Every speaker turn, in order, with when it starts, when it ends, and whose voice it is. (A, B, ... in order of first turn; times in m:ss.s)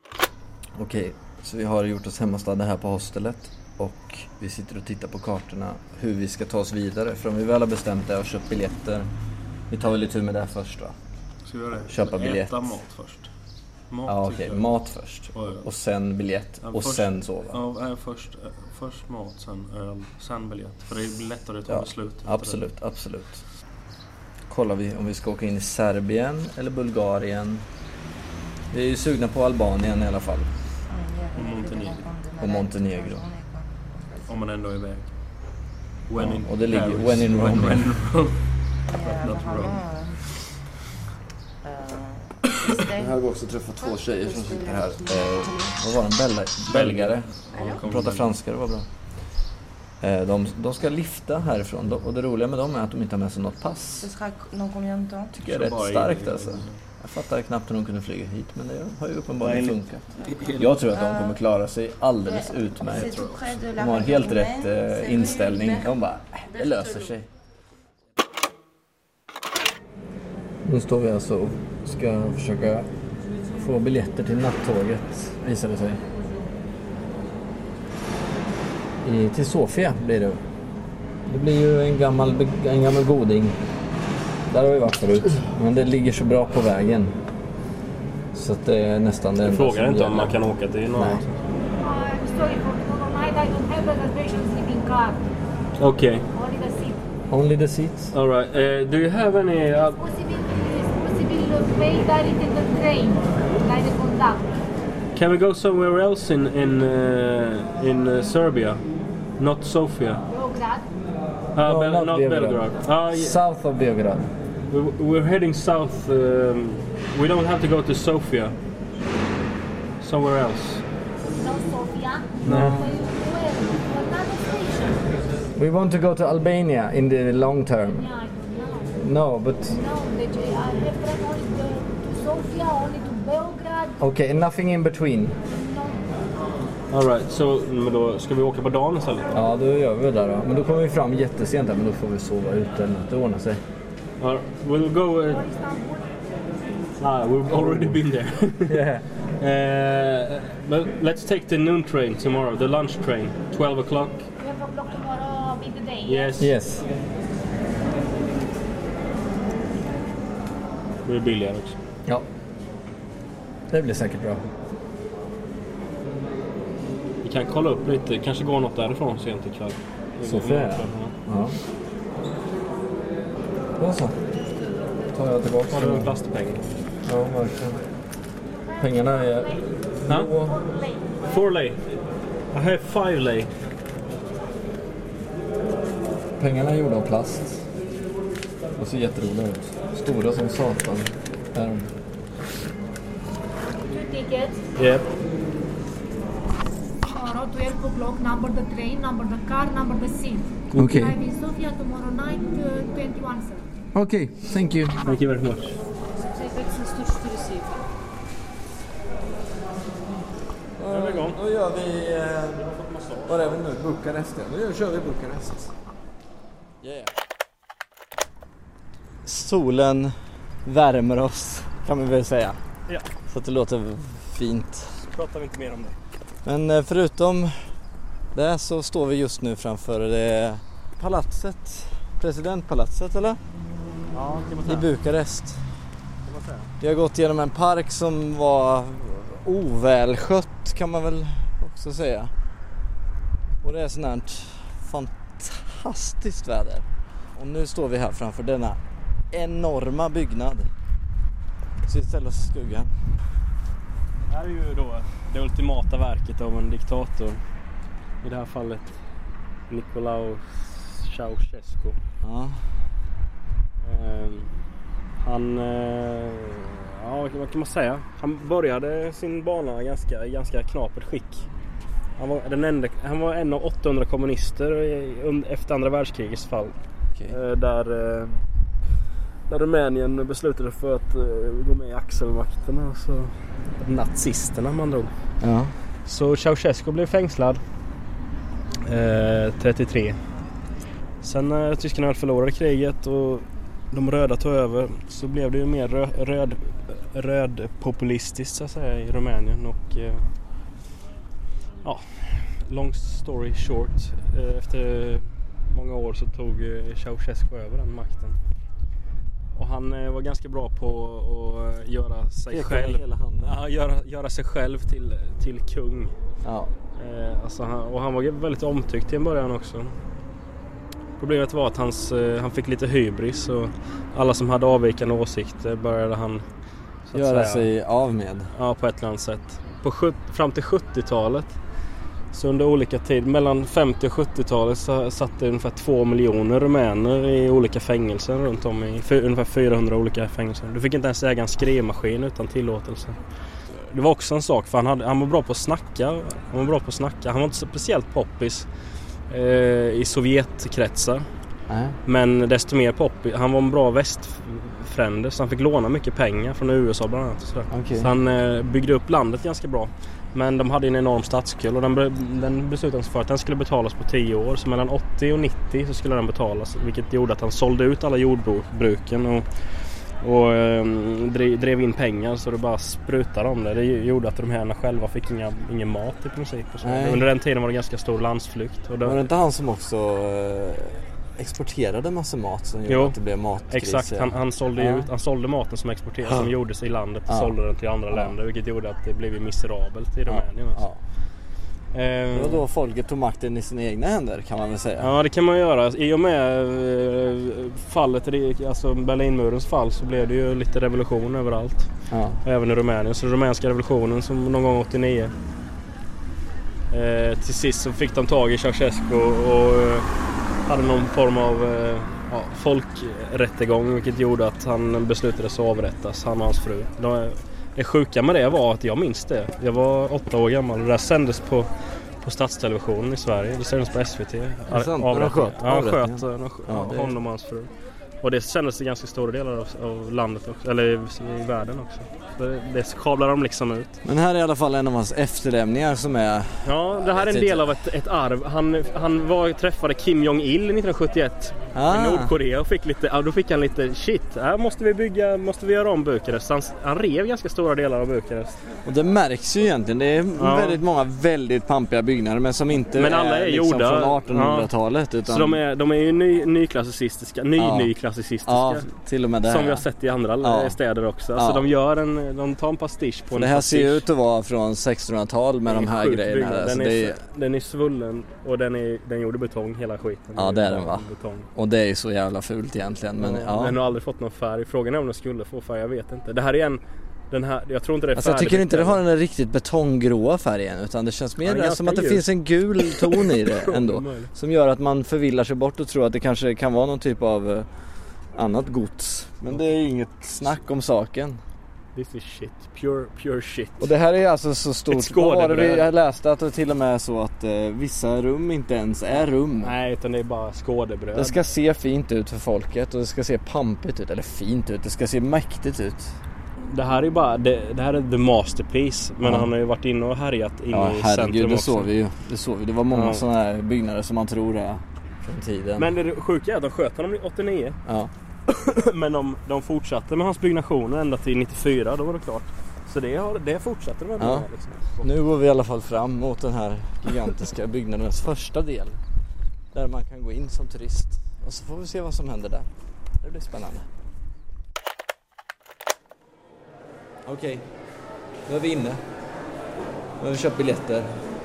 0:00.8-0:09.1 A
0:09.7-0:11.0 A
0:11.5-0:13.3 B
0:11.9-0:12.6 A
0:13.9-0:14.7 B
0:14.1-0:17.6 A
0:15.3-0:15.6 B
0:16.7-0:22.6 B
0:21.7-0:23.5 A
0:24.5-0:27.7 A
0:28.7-0:30.5 A
0:30.9-0:34.3 C
0:31.4-0:32.0 B
0:32.4-0:33.3 A
0:34.3-0:35.1 B
0:36.1-0:38.2 B
0:36.2-0:38.0 A
0:38.8-0:40.3 C
0:39.3-0:39.8 B
0:41.6-0:43.2 C
0:42.9-0:49.4 A
0:43.8-0:45.8 C
0:46.7-0:48.3 B
0:47.5-0:47.8 C
0:50.0-0:54.1 A
0:54.0-0:55.4 C
0:55.3-1:07.3 A
0:55.5-0:56.8 B
0:59.4-1:00.7 B
1:00.2-1:01.4 C
1:02.2-1:07.1 C
1:02.9-1:03.6 B
1:10.6-1:12.9 A
1:13.5-1:16.0 A
1:19.0-1:20.4 A
1:21.3-1:23.6 A
1:24.5-1:27.2 A
1:28.3-1:31.3 A
1:29.4-1:31.3 B
1:31.8-1:35.2 D
1:35.8-1:36.3 B
1:36.3-1:37.0 D
1:37.3-1:38.1 A
1:38.1-1:40.0 B
1:40.0-1:44.5 D
1:45.1-1:50.2 B
1:50.3-1:50.9 D
1:51.6-1:53.4 B
1:51.6-1:54.3 A
1:54.7-1:58.6 B
2:00.0-2:00.8 B
2:01.3-2:05.2 D
2:02.4-2:02.8 B
2:02.4-2:02.9 A
2:05.6-2:08.1 A
2:07.9-2:09.0 D
2:09.0-2:09.8 A
2:09.7-2:14.0 D
2:14.0-2:15.4 A
2:15.5-2:16.0 D
2:16.9-2:19.3 B
2:19.3-2:23.6 A
2:24.2-2:25.4 B
2:25.3-2:26.2 D
2:27.0-2:28.8 B
2:27.5-2:28.0 A
2:28.7-2:29.1 A
2:29.4-2:34.3 B
2:34.4-2:36.4 D
2:36.0-2:36.5 B
2:36.4-2:36.9 A
2:41.0-2:41.8 B
2:43.7-2:44.5 A
2:47.2-2:51.1 B
2:50.2-2:51.6 A
2:53.8-2:54.2 A
2:55.1-2:56.1 A
2:55.7-2:56.7 B
2:57.0-2:57.8 A
2:58.7-2:59.7 D
2:58.8-3:00.6 A
3:00.4-3:01.4 D
3:01.2-3:01.8 B
3:02.5-3:03.5 B
3:06.4-3:07.7 A
3:08.8-3:11.9 A
3:13.9-3:14.6 D
3:14.8-3:15.1 B
3:17.1-3:23.6 D
3:20.8-3:21.2 A
3:23.9-3:25.0 A
3:25.0-3:25.8 B
3:26.2-3:27.8 C
3:30.8-3:32.7 A
3:30.9-3:31.4 B
3:32.6-3:33.6 B
3:33.2-3:35.7 A
3:36.8-3:37.1 A
3:39.2-3:42.6 A
3:43.3-3:45.0 A
3:45.0-3:46.0 B
3:46.4-3:47.7 A
3:48.3-3:53.4 A
3:54.1-3:54.9 B
3:54.6-3:55.7 A
3:56.2-3:56.7 B
3:56.8-4:02.3 A
4:03.6-4:08.8 A
4:09.3-4:10.7 A
4:11.8-4:13.0 A
4:14.3-4:17.4 B
4:18.2-4:19.0 B
4:19.7-4:22.0 B
4:22.2-4:22.7 A
4:23.8-4:24.5 B
4:25.2-4:31.5 B
4:32.2-4:36.8 B
4:37.3-4:38.4 B
4:39.5-4:45.1 B
4:45.4-4:45.8 A
4:46.1-4:47.6 B
4:48.8-4:50.2 B
4:51.2-5:00.3 B
5:01.8-5:08.4 B
5:09.6-5:16.2 B
5:12.5-5:13.6 A
5:16.4-5:16.7 A
5:17.0-5:20.0 B
5:21.2-5:26.5 B
5:27.0-5:27.7 B
5:27.1-5:28.5 A
5:28.6-5:31.6 B
5:32.3-5:51.3 B
5:51.7-5:52.0 A
5:52.1-6:19.2 B
5:57.7-5:58.1 A
6:16.8-6:17.3 A
6:19.0-6:25.1 A
6:22.9-6:23.2 B
6:23.7-6:32.6 B
6:26.2-6:26.5 A
6:27.3-6:27.6 A
6:28.1-6:28.4 A
6:30.3-6:31.0 A
6:32.3-6:35.1 A
6:35.0-6:45.3 B
6:42.1-6:42.4 A
6:46.9-6:50.1 B
6:50.7-7:01.7 B
7:02.2-7:14.0 B
7:04.7-7:07.2 A
7:14.0-7:17.8 A
7:16.6-7:28.6 B
7:21.7-7:22.3 A
7:28.8-7:35.6 A
7:30.4-7:30.8 B
7:32.9-7:44.1 B
7:37.6-7:37.9 A
7:38.4-7:39.8 A
7:40.4-7:40.8 A
7:41.4-7:41.7 A
7:43.3-7:47.2 A
7:45.7-7:51.5 B
7:50.4-7:53.8 A
7:53.2-7:59.0 B
7:58.2-8:11.4 A
8:01.4-8:04.3 B
8:12.0-8:13.9 B
8:13.8-8:19.8 A
8:14.9-8:15.9 B
8:19.6-8:21.4 B
8:21.1-8:26.2 A
8:26.7-8:31.9 B
8:29.2-8:29.5 A
8:30.7-8:35.9 A
8:32.9-8:33.2 B
8:35.8-8:37.8 B
8:37.9-8:38.1 A
8:38.5-8:45.1 B
8:44.2-8:49.0 A
8:49.7-8:52.7 A
8:53.2-8:53.9 A
8:57.2-8:57.7 A
8:58.5-8:59.0 A
9:00.2-9:01.2 A